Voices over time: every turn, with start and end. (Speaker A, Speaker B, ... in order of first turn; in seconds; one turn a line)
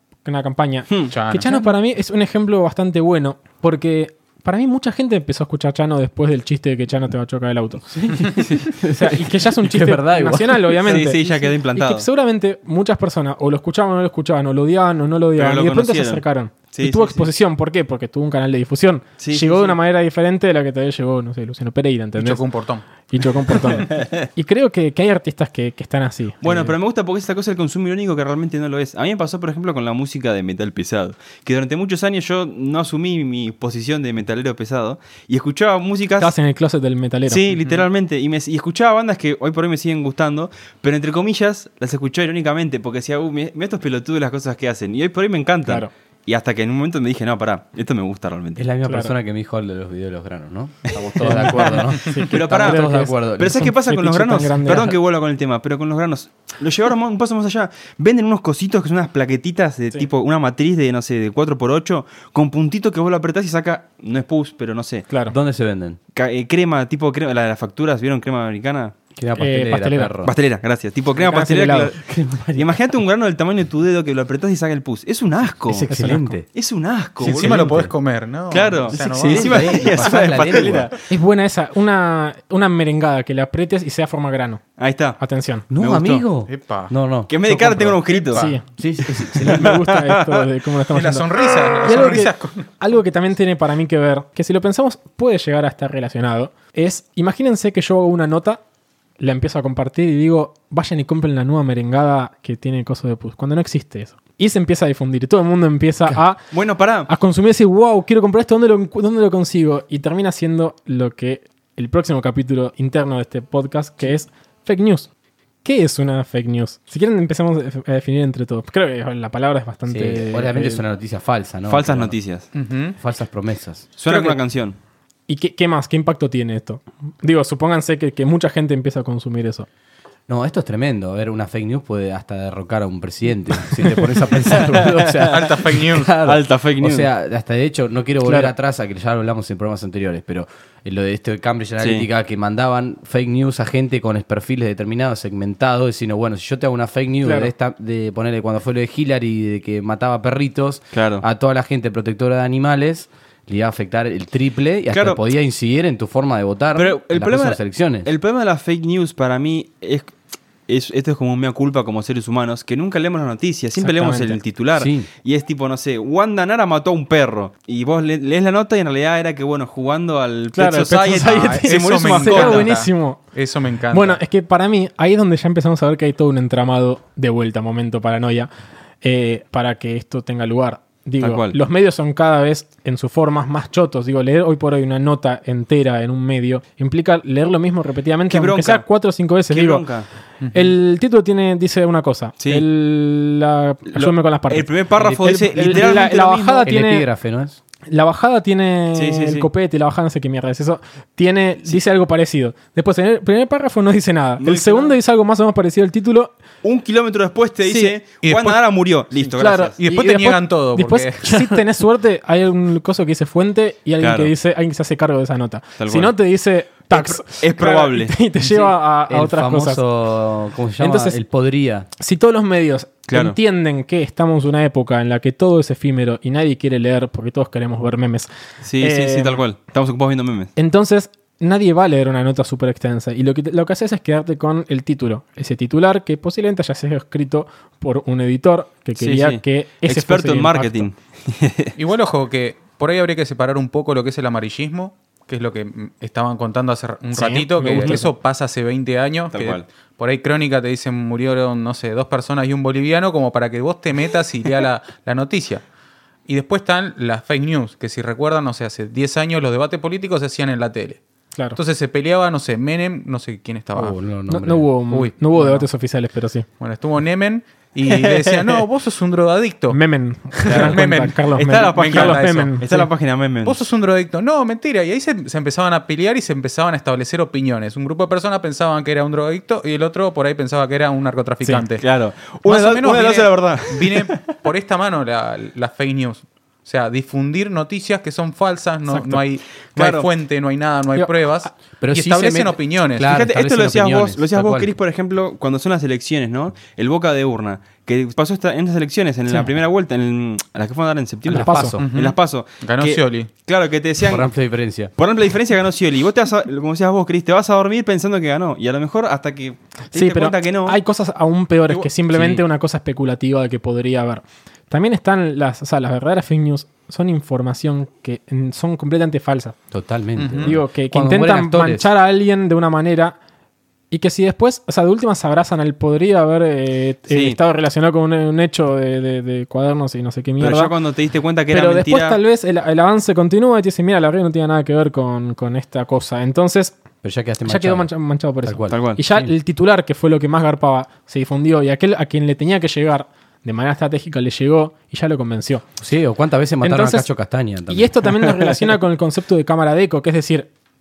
Speaker A: 0.2-8.2
Speaker B: 1.1-1.6
Speaker C: 7.9-11.1
Speaker D: 8.4-8.7
Speaker A: 8.9-22.4
Speaker D: 10.8-12.1
Speaker D: 15.4-17.3
Speaker D: 19.2-19.8
Speaker B: 22.2-22.8
Speaker A: 23.1-26.7
Speaker D: 26.4-36.3
Speaker A: 36.2-37.5
Speaker D: 37.3-48.6
Speaker C: 48.6-53.7
Speaker A: 48.8-49.1
Speaker D: 50.9-51.5
Speaker A: 51.2-54.9
Speaker D: 52.3-65.1
Speaker A: 65.1-65.3
Speaker C: 65.3-66.0
Speaker D: 66.1-68.9
Speaker C: 69.2-70.3
Speaker A: 69.4-70.1
Speaker D: 70.2-72.0
Speaker A: 71.2-71.9
Speaker C: 72.0-72.8
Speaker D: 72.5-75.9
Speaker C: 75.7-76.5
Speaker A: 75.9-76.3
Speaker D: 76.5-77.8
Speaker B: 77.2-79.8
Speaker C: 77.2-77.9
Speaker D: 78.5-80.9
Speaker C: 78.9-80.9
Speaker A: 81.1-84.6
Speaker D: 84.8-85.2
Speaker A: 85.2-85.7
Speaker C: 85.7-88.0
Speaker D: 85.8-86.1
Speaker B: 85.9-86.9
Speaker D: 87.3-88.4
Speaker B: 88.3-88.6
Speaker A: 88.3-88.6
Speaker C: 88.7-89.8
Speaker A: 89.4-91.3
Speaker D: 89.4-90.4
Speaker B: 90.9-92.7
Speaker A: 91.8-98.6
Speaker A: 99.2-106.4
Speaker D: 106.5-107.1
Speaker A: 107.1-115.1
Speaker A: 115.6-120.8
Speaker C: 119.9-122.2
Speaker D: 121.7-122.5
Speaker B: 122.5-123.0
Speaker C: 123.0-123.9
Speaker D: 124.0-124.8
Speaker B: 124.1-124.4
Speaker A: 125.3-129.7
Speaker C: 130.3-158.1
Speaker B: 135.2-136.1
Speaker D: 136.1-137.1
Speaker A: 138.2-138.5
Speaker D: 141.8-142.1
Speaker A: 147.2-147.5
Speaker D: 150.9-151.2
Speaker D: 154.9-155.2
Speaker D: 156.8-160.1
Speaker D: 160.7-172.8
Speaker A: 163.8-164.4
Speaker C: 164.7-165.1
Speaker A: 170.5-173.2
Speaker B: 170.8-174.2
Speaker A: 173.9-178.5
Speaker A: 179.0-189.8
Speaker D: 181.2-181.5
Speaker D: 188.3-188.8
Speaker D: 189.5-190.1
Speaker B: 190.4-190.7
Speaker A: 190.5-197.1
Speaker D: 192.4-192.7
Speaker D: 193.9-196.7
Speaker C: 195.6-196.0
Speaker C: 196.6-197.6
Speaker A: 197.9-206.3
Speaker D: 198.9-199.5
Speaker D: 204.4-204.9
Speaker D: 206.6-209.8
Speaker A: 207.6-207.9
Speaker B: 208.2-208.6
Speaker A: 209.4-219.8
Speaker B: 209.8-211.6
Speaker D: 214.0-214.3
Speaker D: 215.8-216.1
Speaker D: 216.9-218.2
Speaker C: 218.4-221.9
Speaker A: 220.8-221.2
Speaker A: 222.0-229.4
Speaker D: 223.1-223.4
Speaker D: 228.6-230.5
Speaker A: 230.6-240.9
Speaker D: 239.0-241.7
Speaker B: 241.8-255.6
Speaker A: 247.1-248.1
Speaker D: 249.3-249.6
Speaker B: 256.2-261.0
Speaker B: 261.5-264.0
Speaker C: 263.7-264.7
Speaker A: 264.3-266.4
Speaker B: 264.9-265.7
Speaker B: 266.6-269.8
Speaker D: 267.9-268.6
Speaker A: 269.7-272.9
Speaker B: 270.4-272.6
Speaker D: 270.5-270.8
Speaker D: 271.4-273.6
Speaker B: 273.4-281.9
Speaker D: 281.8-284.3
Speaker B: 282.4-293.1
Speaker A: 288.9-289.2
Speaker D: 289.8-290.1
Speaker A: 290.9-291.5
Speaker C: 291.8-294.7
Speaker D: 293.1-304.2
Speaker C: 301.3-301.8
Speaker A: 301.4-301.8
Speaker B: 301.8-303.3
Speaker C: 304.0-304.9
Speaker D: 305.0-310.8
Speaker A: 309.9-319.5
Speaker C: 312.1-312.4
Speaker C: 319.7-321.9
Speaker B: 320.2-320.6
Speaker A: 320.4-323.2
Speaker A: 323.9-330.7
Speaker D: 327.1-327.4
Speaker D: 330.4-332.2
Speaker A: 331.5-336.8
Speaker C: 337.0-337.9
Speaker A: 337.4-345.6
Speaker C: 338.4-339.3
Speaker D: 338.7-339.0
Speaker C: 345.8-348.4
Speaker A: 346.6-347.1
Speaker A: 347.7-350.5